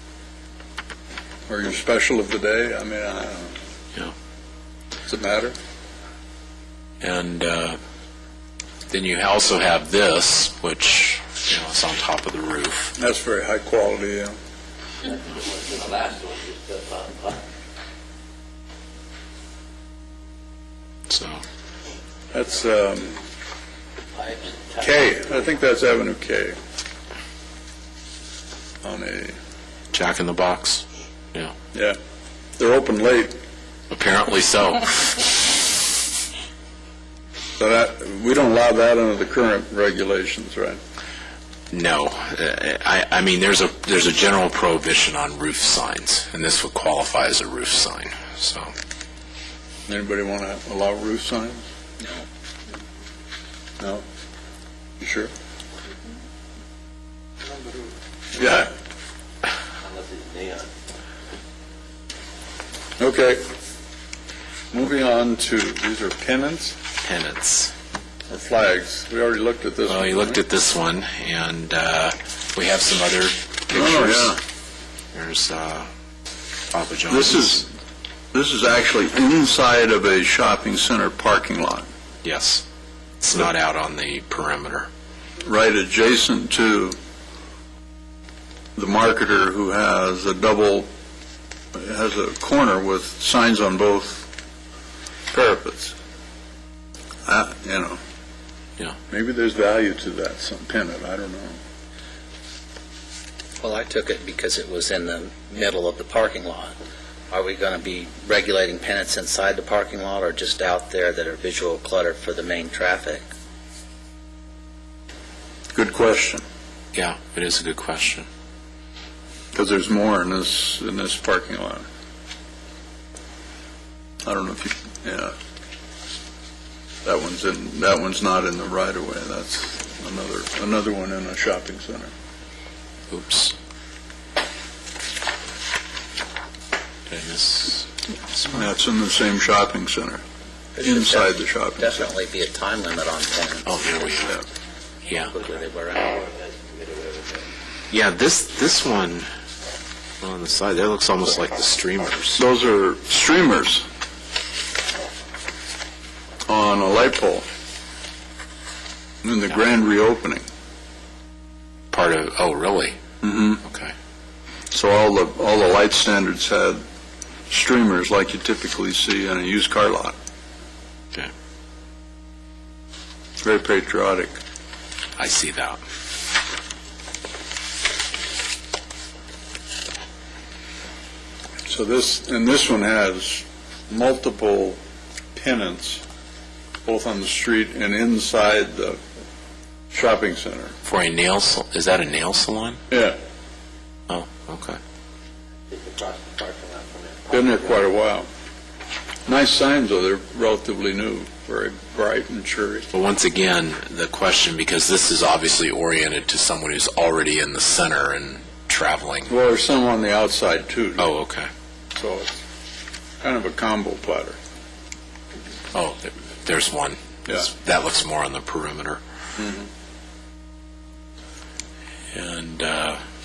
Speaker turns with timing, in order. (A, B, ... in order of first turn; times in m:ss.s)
0:01.5-0:03.5 A
0:05.0-0:05.5 A
0:07.0-0:07.8 B
0:08.9-0:12.9 B
0:13.0-0:14.4 A
0:15.1-0:17.4 C
0:21.1-0:21.4 B
0:22.3-0:23.2 A
0:24.2-0:24.8 C
0:24.8-0:26.6 A
0:28.8-0:29.4 A
0:29.9-0:31.5 B
0:32.6-0:33.3 A
0:33.9-0:35.4 B
0:37.6-0:40.8 A
0:41.7-0:48.7 B
0:49.9-0:51.6 A
0:53.8-0:54.0 A
0:55.0-0:55.3 A
0:58.3-0:58.7 A
0:59.8-1:00.7 C
1:03.0-1:03.4 A
1:04.7-1:06.8 A
1:07.0-1:07.7 B
1:08.3-1:10.4 A
1:09.8-1:14.4 B
1:13.7-1:14.4 A
1:15.1-1:15.9 B
1:16.7-1:17.6 B
1:17.1-1:17.7 A
1:18.3-1:21.9 A
1:22.2-1:22.6 B
1:23.2-1:24.9 B
1:25.4-1:27.0 A
1:28.8-1:30.9 A
1:31.7-1:34.3 A
1:35.3-1:35.9 A
1:37.2-1:38.0 A
1:39.1-1:41.6 A
1:43.6-1:46.7 D
1:47.3-1:53.2 D
1:55.7-1:56.4 A
1:56.9-1:58.3 B
1:59.5-2:01.8 A
2:04.2-2:05.3 A
2:07.0-2:12.1 A
2:13.1-2:13.5 B
2:17.1-2:18.4 B
2:18.4-2:20.2 A
2:20.8-2:24.2 D
2:20.8-2:22.1 A
2:23.6-2:24.4 B
2:25.1-2:25.3 B
2:25.3-2:26.2 D
2:26.1-2:27.4 C
2:27.9-2:29.3 B
2:30.2-2:32.4 B
2:32.4-2:33.8 A
2:36.5-2:37.4 A
2:39.2-2:40.4 A
2:41.9-2:43.0 B
2:43.2-2:43.6 A
2:43.6-2:43.9 B
2:44.7-2:46.8 A
2:47.5-2:50.2 A
2:53.4-2:54.3 A
2:55.2-2:55.8 B
3:01.7-3:04.8 A
3:05.3-3:06.0 A
3:06.8-3:09.0 A
3:09.9-3:10.7 A
3:10.8-3:12.8 B
3:12.9-3:13.2 A
3:14.1-3:14.8 B
3:15.7-3:17.3 C
3:17.3-3:18.3 A
3:19.2-3:22.9 A
3:22.9-3:29.3 B
3:29.3-3:31.1 A
3:31.0-3:31.5 B
3:31.9-3:32.4 A
3:33.2-3:34.4 A
3:35.7-3:39.0 B
3:39.4-3:39.7 A
3:42.1-3:43.0 B